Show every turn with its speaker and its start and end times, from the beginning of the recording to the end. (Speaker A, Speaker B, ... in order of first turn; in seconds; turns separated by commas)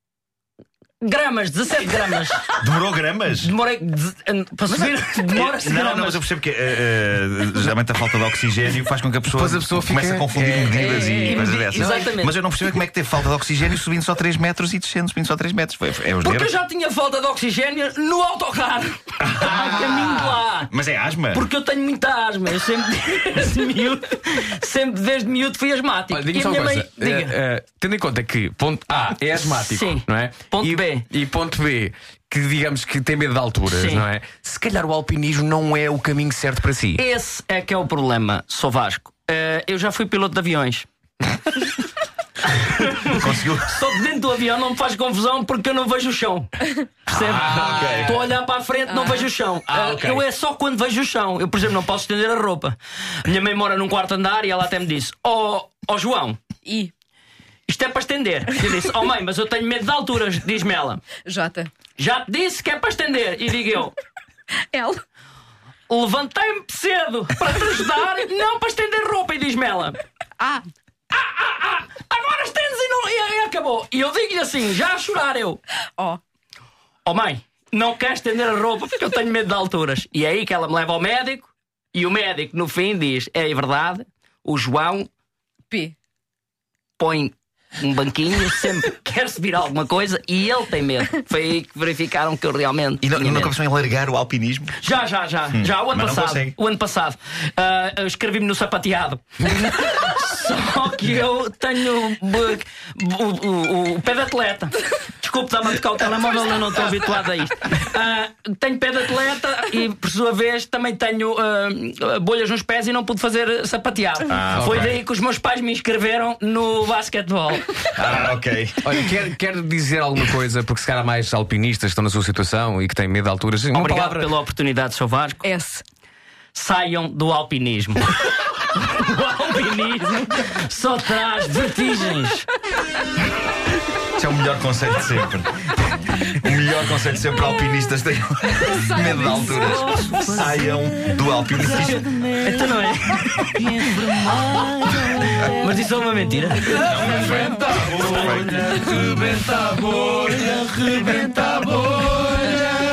Speaker A: 1.0-2.5, Speaker B: 2.6-3.5, Speaker A: 3.4-6.2, Speaker B: 5.3-16.5, Speaker C: 9.3-12.0, Speaker D: 10.9-11.2, Speaker A: 11.2-12.4, Speaker A: 16.2-20.7, Speaker B: 19.2-20.2, Speaker C: 20.0-20.3, Speaker B: 20.7-21.5, Speaker A: 21.3-27.4, Speaker C: 26.1-37.0, Speaker A: 29.3-31.1, Speaker A: 33.7-34.0, Speaker A: 37.0-40.9, Speaker A: 42.6-46.5, Speaker B: 43.1-43.7, Speaker A: 47.1-56.4, Speaker B: 47.1-48.2, Speaker C: 47.3-48.1, Speaker D: 48.9-49.3, Speaker C: 49.7-50.2, Speaker D: 56.7-56.9, Speaker A: 57.7-61.0, Speaker D: 61.2-61.7, Speaker A: 62.0-64.0, Speaker D: 64.7-65.0, Speaker A: 65.9-70.0, Speaker A: 71.1-75.6, Speaker A: 77.0-85.1, Speaker A: 87.0-93.5, Speaker B: 93.0-94.8, Speaker A: 94.8-117.7, Speaker B: 95.5-96.5, Speaker B: 114.3-114.9, Speaker C: 114.5-114.9, Speaker B: 118.0-118.9, Speaker C: 118.8-124.4, Speaker A: 123.7-125.4, Speaker D: 125.4-125.8, Speaker A: 126.5-132.5, Speaker B: 134.2-135.6, Speaker B: 136.3-142.1, Speaker D: 138.6-139.7, Speaker E: 139.2-146.0, Speaker A: 141.8-143.5, Speaker A: 145.5-147.0, Speaker E: 146.7-147.1, Speaker B: 146.8-148.9, Speaker E: 148.8-152.6